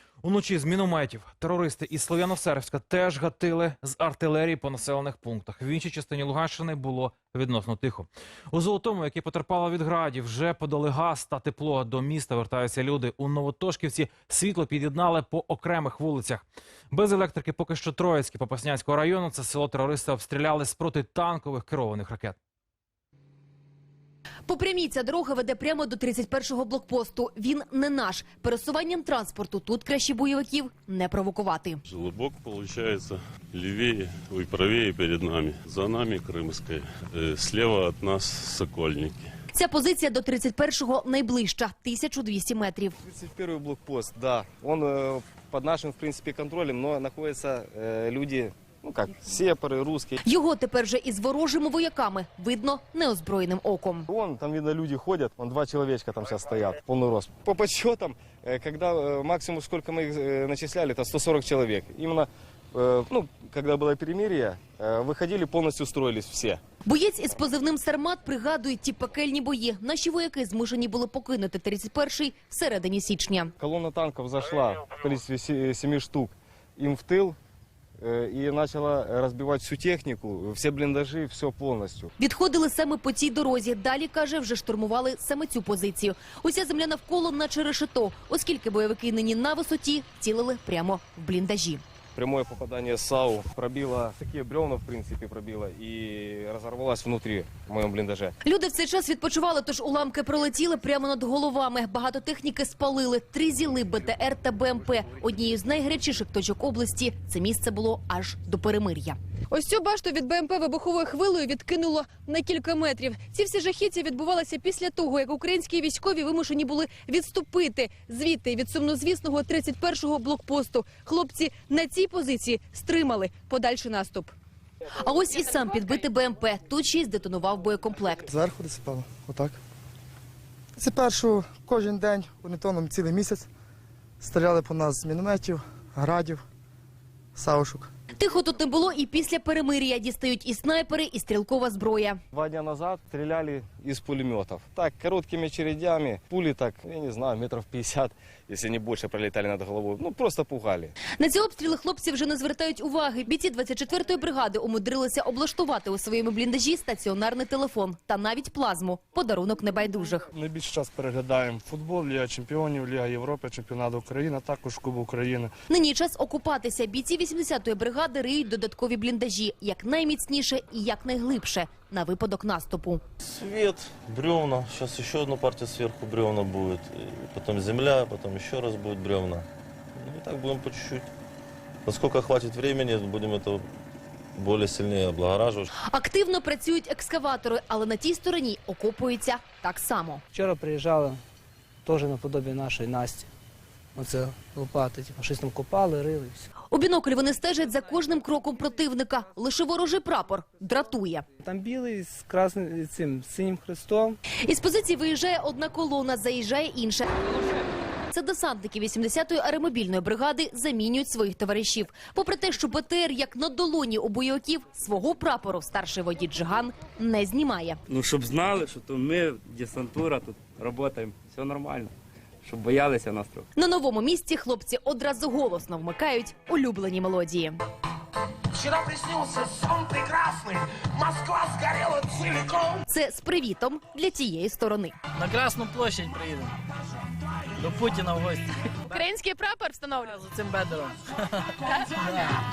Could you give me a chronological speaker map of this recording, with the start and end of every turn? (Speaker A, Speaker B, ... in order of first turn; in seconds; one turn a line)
Speaker A: 0.2-22.4
Speaker B: 24.5-31.8
Speaker C: 31.9-39.3
Speaker B: 39.5-42.9
Speaker D: 43.0-50.2
Speaker B: 50.2-54.1
Speaker D: 54.1-66.6
Speaker B: 66.8-73.5
Speaker D: 73.6-77.4
Speaker D: 78.0-82.1
Speaker B: 82.2-91.8
Speaker D: 92.1-98.3
Speaker B: 98.4-124.3
Speaker B: 124.9-128.3
Speaker E: 128.3-129.6
Speaker E: 130.8-133.5
Speaker E: 134.2-136.4
Speaker E: 137.3-137.9
Speaker B: 138.1-142.2
Speaker D: 142.3-150.9
Speaker B: 151.1-160.3
Speaker F: 160.3-165.5
Speaker B: 165.7-173.0
Speaker G: 173.2-181.1
Speaker G: 181.8-183.7
Speaker G: 184.3-185.7
Speaker B: 185.9-190.2
Speaker H: 190.3-191.2
Speaker H: 191.8-193.3
Speaker H: 193.9-196.5
Speaker B: 196.7-201.2
Speaker H: 201.4-204.2
Speaker B: 204.4-207.1
Speaker B: 208.1-217.8
Speaker I: 217.9-223.5
Speaker B: 223.6-227.6
Speaker J: 228.6-230.5
Speaker J: 231.0-232.7
Speaker B: 232.9-235.0
Speaker K: 235.1-236.6
Speaker K: 237.6-238.9
Speaker B: 238.9-240.2
Speaker K: 240.1-242.4